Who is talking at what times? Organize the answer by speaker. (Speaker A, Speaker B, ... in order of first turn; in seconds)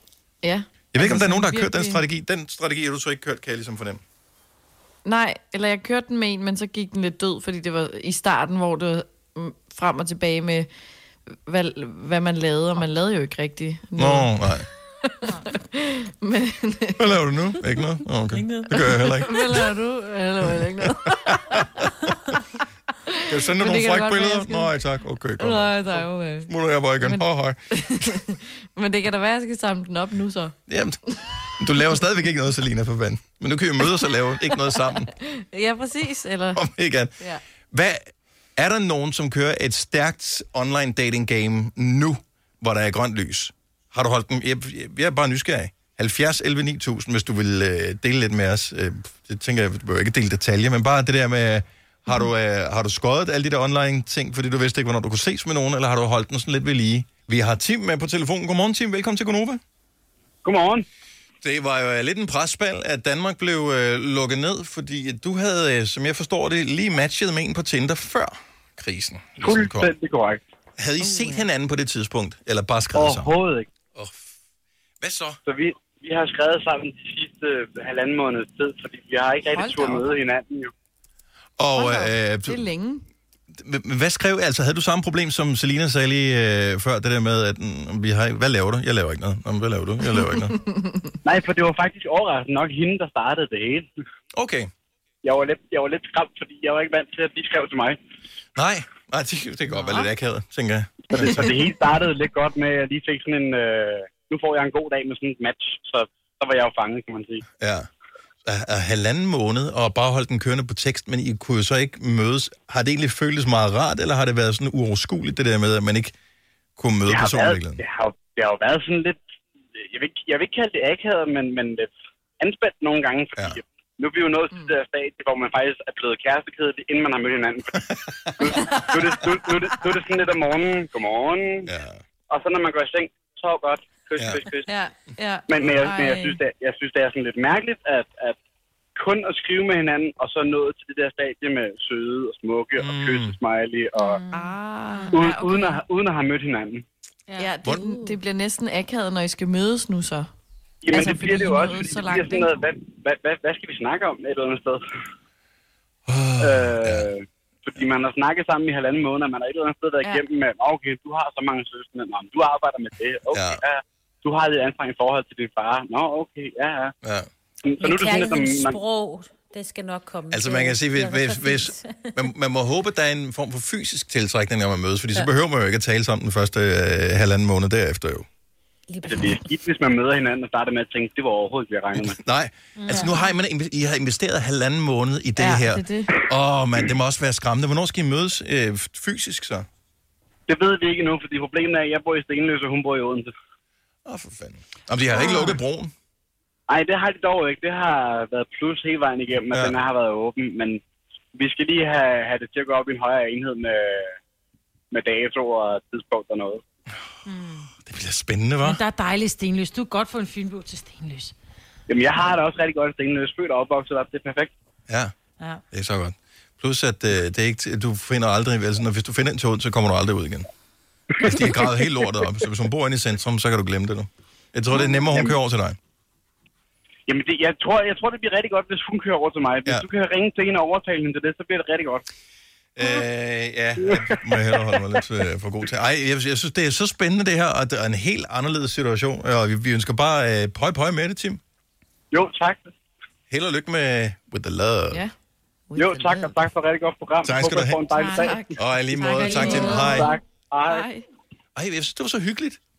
Speaker A: 0.4-2.0, 5.0-10.7, 11.5-14.3, 15.0-17.1, 18.8-21.6, 23.1-24.7, 25.4-30.6, 34.0-36.6, 71.0-71.5, 79.5-80.2, 81.7-83.0, 90.2-91.1, 99.7-100.1, 128.6-129.0, 134.7-136.4, 144.3-145.8, 147.4-150.3, 150.9-152.6, 185.4-186.1, 245.7-246.5, 248.1-250.1, 250.7-251.1
Speaker B: 0.9-4.0, 14.0-14.7, 17.0-19.7, 21.3-21.9, 23.3-28.1, 30.7-31.0, 31.6-35.1, 36.5-37.1, 37.7-59.6, 61.4-69.9, 70.8-73.3, 73.9-74.3, 75.0-75.4, 81.6-82.7, 83.5-90.6, 94.3-94.7, 98.5-101.5, 107.6-107.9, 108.5-116.2, 116.8-117.8, 131.7-132.0, 134.2-134.4, 142.8-143.4, 156.1-157.1, 163.3-163.6, 167.0-167.3, 170.3-178.3, 181.9-189.7, 194.1-195.9, 207.7-208.8, 214.9-215.1, 215.7-220.5, 221.2-225.8, 232.8-241.4, 243.3-245.0, 247.2-247.8, 248.6-250.2, 251.6-252.6
Speaker C: 18.4-18.6, 167.8-172.2, 178.9-179.4
Speaker D: 60.5-60.9, 69.4-70.4, 73.0-73.7, 75.5-80.7, 91.2-93.9, 95.2-98.0, 101.1-107.4, 117.1-119.2, 119.9-127.8, 128.4-131.7, 132.3-134.7, 135.5-138.4, 139.0-144.2, 145.1-146.8, 150.8-154.8, 156.4-166.9, 167.7-168.8, 179.1-182.2, 190.5-193.3, 196.7-200.8, 201.3-204.2, 204.9-206.6, 211.9-214.5, 221.2-221.7, 224.7-225.3, 227.1-232.0, 233.8-234.8, 242.1-242.7, 245.8-248.4, 249.9-250.8
Speaker E: 144.0-145.2, 147.3-148.1, 182.8-183.2, 195.2-195.5, 207.3-207.7, 208.6-211.3, 247.9-248.4, 248.9-250.1